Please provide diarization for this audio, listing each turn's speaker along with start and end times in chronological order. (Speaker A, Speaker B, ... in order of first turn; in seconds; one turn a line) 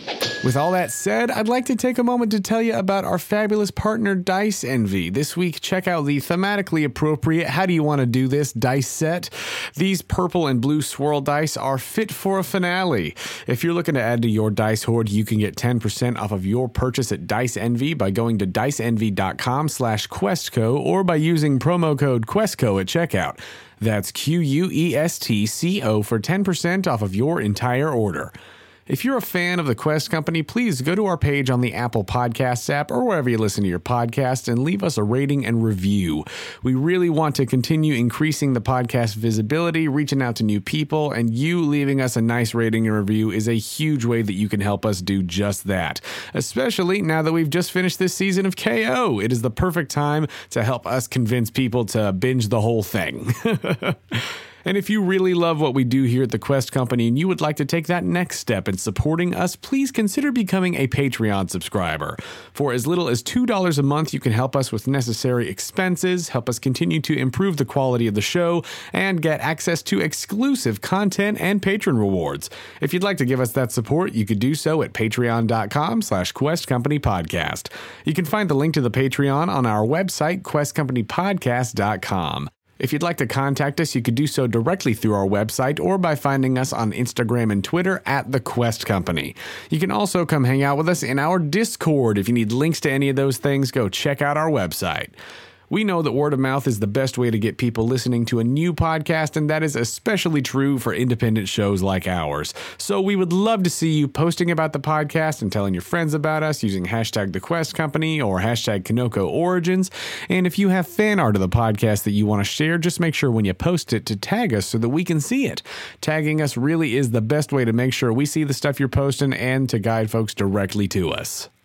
Speaker A: 0.4-28.3
Speaker A: 28.9-95.1
Speaker A: 95.7-121.5